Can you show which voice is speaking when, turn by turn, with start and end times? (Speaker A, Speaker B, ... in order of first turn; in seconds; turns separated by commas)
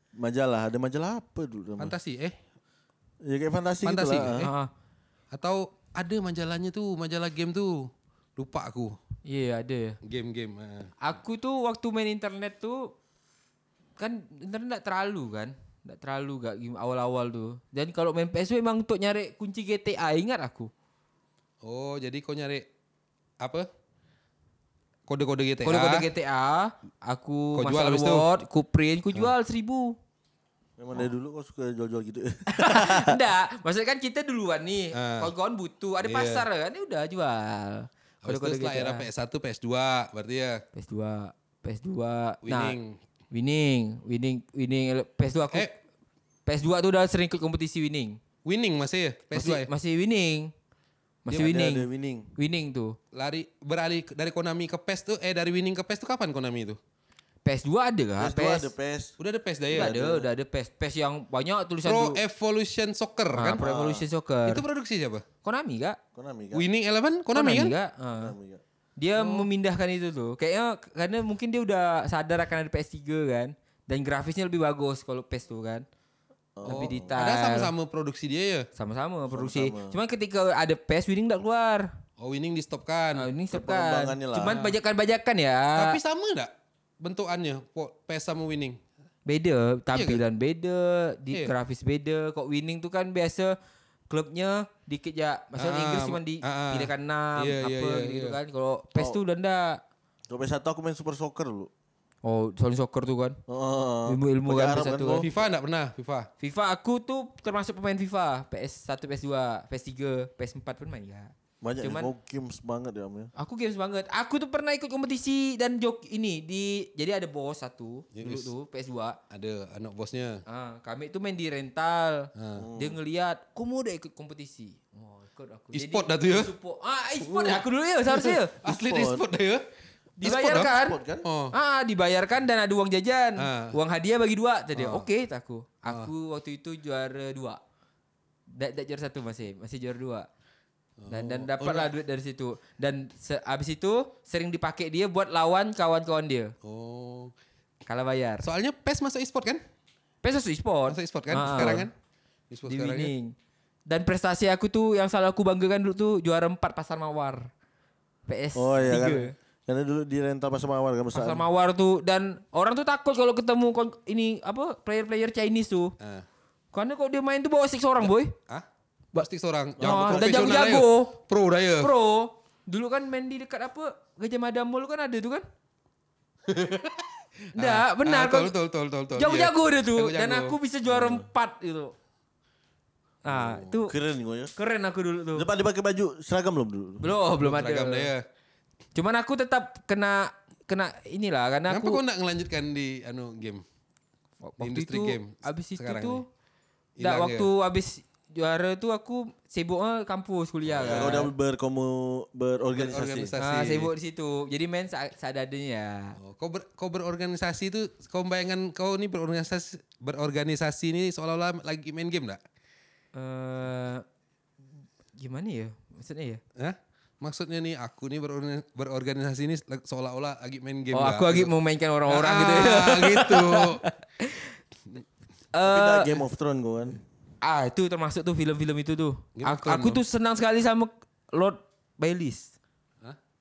Speaker A: 0.2-1.9, Speaker B: 1.8-2.4, Speaker A: 3.2-4.4, Speaker B: 3.8-4.5, Speaker C: 4.4-4.7, Speaker B: 5.3-8.9, Speaker C: 9.3-10.0, Speaker B: 10.0-10.9, Speaker C: 11.0-12.9, Speaker C: 14.0-20.7, Speaker B: 21.6-22.6, Speaker B: 23.4-23.7, Speaker B: 25.1-26.1, Speaker C: 25.6-29.9, Speaker B: 27.6-28.2, Speaker A: 30.8-33.2, Speaker C: 32.5-39.1, Speaker B: 34.9-35.3, Speaker B: 36.0-36.5, Speaker B: 38.2-40.6, Speaker C: 40.7-42.8, Speaker B: 42.4-43.0, Speaker C: 43.3-45.7, Speaker C: 46.5-48.2, Speaker B: 48.4-49.7, Speaker C: 49.3-50.5, Speaker C: 51.2-51.9, Speaker A: 51.3-52.3, Speaker C: 52.4-53.0, Speaker B: 53.1-56.8, Speaker C: 57.4-58.7, Speaker A: 58.2-59.1, Speaker B: 59.2-59.9, Speaker A: 59.7-60.3, Speaker C: 59.7-62.2, Speaker B: 61.8-63.6, Speaker C: 63.3-64.6, Speaker A: 63.5-64.0, Speaker B: 64.5-65.2, Speaker C: 65.4-66.0, Speaker A: 66.1-66.7, Speaker B: 66.5-67.7, Speaker C: 67.3-68.3, Speaker A: 68.2-68.6, Speaker C: 69.0-75.8, Speaker B: 69.2-69.5, Speaker A: 76.5-77.2, Speaker C: 76.6-77.7, Speaker B: 76.7-78.7, Speaker C: 78.8-81.9, Speaker A: 79.3-80.0, Speaker B: 82.2-83.3, Speaker C: 83.2-86.0, Speaker A: 83.5-84.5, Speaker B: 85.7-88.8, Speaker C: 89.2-93.5, Speaker B: 89.9-90.2, Speaker C: 94.1-99.8, Speaker B: 95.6-98.3, Speaker A: 100.3-101.7, Speaker C: 102.2-103.4, Speaker A: 103.5-105.3, Speaker C: 104.1-105.3, Speaker B: 105.2-106.3, Speaker C: 106.4-112.1, Speaker A: 111.6-113.3, Speaker C: 113.3-119.2, Speaker B: 118.1-118.5, Speaker B: 119.3-120.4, Speaker C: 120.5-128.6, Speaker B: 122.3-122.7, Speaker A: 122.5-123.0, Speaker B: 125.7-126.5, Speaker B: 127.2-127.6, Speaker B: 128.1-129.7, Speaker A: 128.7-129.2, Speaker C: 130.2-131.0, Speaker B: 130.2-131.5, Speaker A: 130.6-131.2, Speaker C: 131.5-137.6, Speaker B: 133.4-133.8, Speaker B: 134.8-135.1, Speaker C: 138.5-140.3, Speaker B: 141.0-141.9, Speaker C: 141.1-146.5, Speaker B: 146.6-147.3, Speaker C: 147.8-148.5, Speaker B: 148.4-149.6, Speaker C: 150.2-151.9, Speaker B: 150.9-151.9, Speaker B: 152.5-153.1, Speaker C: 152.7-153.3, Speaker C: 153.9-157.5, Speaker C: 158.3-159.3, Speaker A: 158.5-161.4, Speaker C: 161.1-165.9, Speaker B: 166.0-166.2, Speaker C: 166.7-168.3, Speaker B: 168.5-171.9, Speaker A: 169.8-170.7, Speaker C: 169.8-171.2, Speaker C: 171.8-175.4, Speaker B: 176.5-180.6, Speaker C: 177.5-178.5, Speaker C: 179.1-181.9, Speaker A: 180.9-181.2, Speaker C: 183.2-183.9, Speaker B: 183.3-183.7, Speaker A: 183.9-184.5, Speaker C: 184.6-185.5, Speaker A: 185.3-187.1, Speaker C: 187.0-188.1, Speaker B: 187.4-188.2, Speaker C: 188.9-192.0, Speaker B: 191.7-193.6, Speaker C: 194.4-196.2, Speaker B: 194.6-196.2, Speaker B: 197.0-197.5, Speaker C: 197.0-201.3, Speaker B: 200.7-201.2, Speaker A: 200.8-203.3, Speaker B: 202.7-203.9, Speaker C: 203.4-206.2, Speaker B: 206.2-212.4, Speaker C: 213.1-214.0, Speaker C: 215.2-216.4, Speaker B: 216.6-221.5, Speaker C: 220.9-224.6, Speaker B: 222.1-223.8, Speaker C: 225.5-226.2, Speaker A: 225.6-227.0, Speaker C: 227.4-232.5, Speaker B: 229.4-230.0